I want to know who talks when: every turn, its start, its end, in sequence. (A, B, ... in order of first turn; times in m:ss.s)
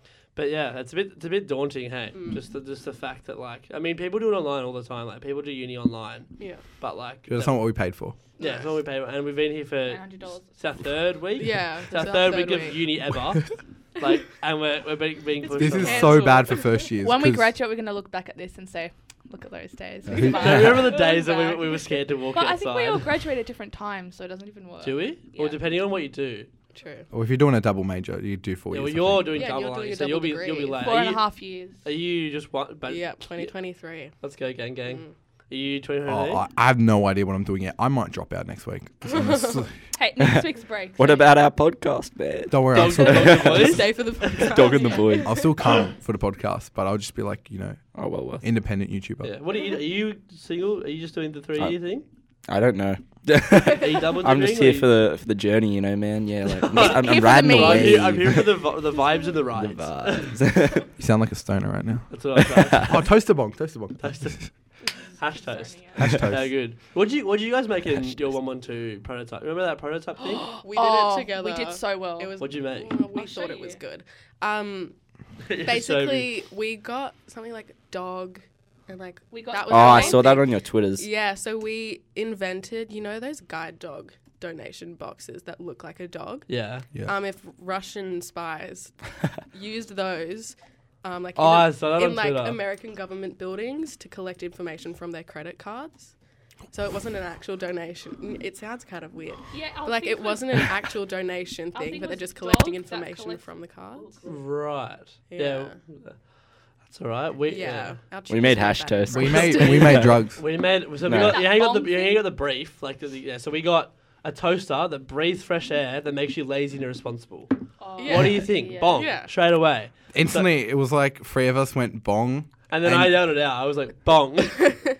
0:00.3-0:07.6 A
0:02.1-0:02.4 B
0:06.4-0:06.6 B
0:07.3-0:08.2 C
0:08.4-0:16.3 A
0:08.4-0:08.7 B
0:09.9-0:10.6 D
0:11.4-0:12.9 B
0:15.6-0:17.5 C
0:15.7-0:16.8 B
0:15.8-0:25.6 D
0:20.1-0:20.9 C
0:20.2-0:23.1 A
0:24.8-0:26.5 A
0:26.7-0:27.1 B
0:27.1-0:29.4 C
0:28.7-0:31.2 A
0:29.3-0:30.8 B
0:30.8-0:31.8 D
0:31.8-0:33.5 A
0:32.9-0:34.1 B
0:34.2-0:36.4 A
0:34.8-0:35.1 B
0:36.0-0:39.7 C
0:39.1-0:39.6 B
0:39.9-0:41.4 D
0:40.2-0:40.4 E
0:41.0-0:43.7 E
0:42.5-0:43.8 C
0:42.7-0:44.5 A
0:43.6-0:45.8 B
0:44.4-0:45.5 E
0:45.2-0:47.9 C
0:47.9-0:48.4 E
0:48.4-0:49.3 C
0:49.2-0:52.0 A
0:52.5-0:58.5 E
0:53.7-0:54.9 A
0:56.5-1:00.4 A
0:56.8-0:58.3 D
0:59.6-1:00.9 E
1:00.9-1:02.1 C
1:02.1-1:03.0 A
1:02.6-1:02.9 E
1:02.8-1:04.5 C
1:04.0-1:10.5 A
1:05.4-1:06.0 D
1:06.0-1:06.5 C
1:10.2-1:14.9 B
1:10.7-1:12.4 D
1:12.4-1:13.0 A
1:13.1-1:13.8 D
1:15.4-1:16.3 A
1:15.6-1:36.1 B
1:19.3-1:20.3 D
1:19.6-1:21.1 E
1:26.5-1:26.9 A
1:31.3-1:32.6 A
1:36.7-1:44.2 B
1:39.5-1:40.6 D
1:41.7-1:44.3 D
1:44.2-1:46.2 A
1:45.3-1:45.7 B
1:46.8-1:48.0 A
1:47.4-1:50.2 B
1:48.3-1:50.0 E
1:49.1-1:50.4 C
1:49.4-2:00.5 A
1:51.0-1:51.4 E
1:51.2-1:52.3 D
1:57.8-1:59.1 D
1:58.0-1:59.3 B
2:00.1-2:03.2 C
2:02.7-2:04.7 A